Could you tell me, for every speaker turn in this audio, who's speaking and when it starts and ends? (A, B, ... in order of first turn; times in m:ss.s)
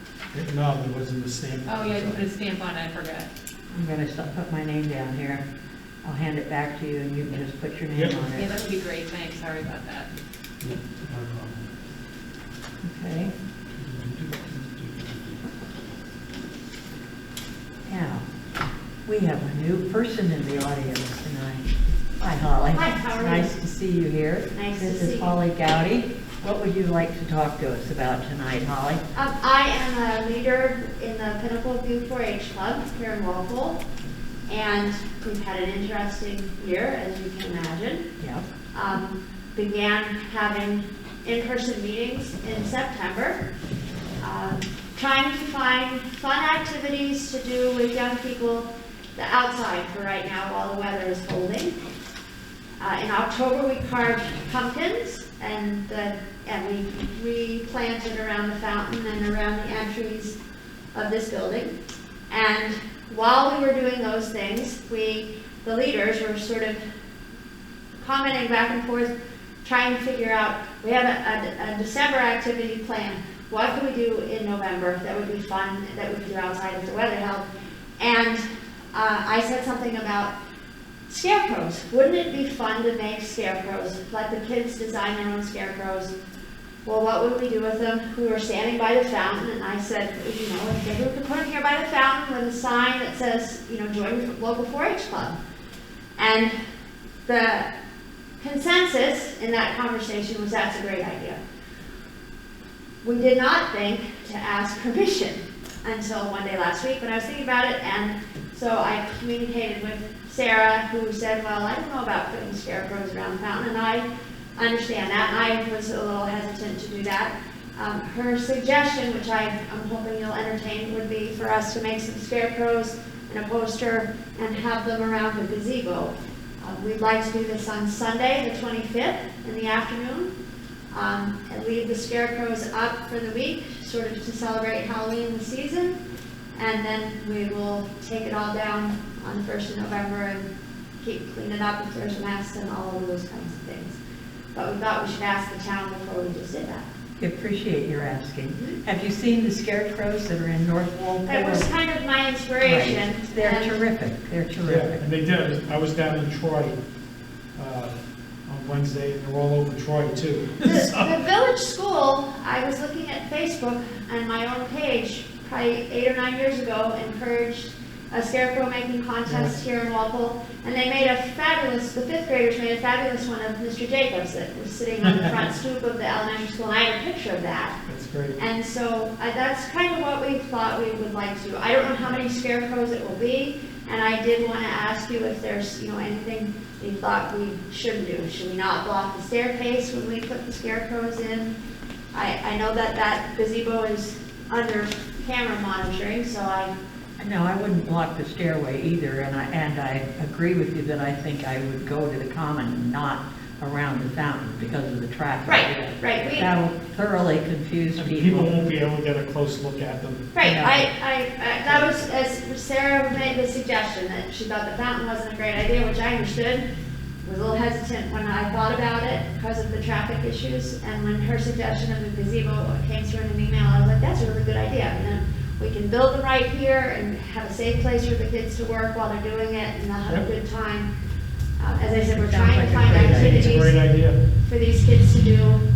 0:00.3-0:02.3 A
0:01.6-0:03.3 B
0:03.7-0:05.4 C
0:06.0-0:08.5 C
0:08.3-0:10.1 B
0:10.6-0:11.6 A
0:12.8-0:13.3 C
0:13.8-0:15.4 A
0:17.9-0:18.2 C
0:19.0-0:21.6 C
0:22.2-0:29.0 C
0:22.7-0:23.5 D
0:24.5-0:25.4 D
0:29.1-0:33.8 D
0:34.5-0:38.1 D
0:38.2-0:38.4 C
0:38.7-0:43.4 D
0:44.2-0:51.8 D
0:52.8-1:00.4 D
1:00.9-1:01.8 D
1:02.3-1:06.8 D
1:08.0-1:17.5 D
1:18.0-1:20.3 D
1:21.1-1:26.1 D
1:26.8-1:35.4 D
1:36.2-1:36.5 D
1:37.2-1:37.7 D
1:38.4-1:41.4 D
1:43.0-2:10.3 D
2:10.9-2:16.0 D
2:16.5-2:20.5 D
2:21.0-2:24.0 D
2:24.5-2:26.8 D
2:27.2-2:31.7 C
2:31.3-2:33.8 D
2:32.6-2:35.0 C
2:34.6-2:36.8 A
2:37.5-2:37.9 A
2:38.4-2:41.1 A
2:40.6-2:57.8 D
2:49.3-2:49.5 A
2:57.9-2:58.4 A
2:58.4-3:11.6 D
3:12.1-3:16.7 D
3:17.2-3:28.5 C
3:25.4-3:26.5 D
3:28.0-3:30.2 A
3:30.3-3:36.7 D
3:30.4-3:30.8 C
3:31.6-3:32.0 A
3:37.2-3:50.9 D
3:51.6-3:55.7 D
3:52.1-3:53.6 C
3:52.8-3:54.2 A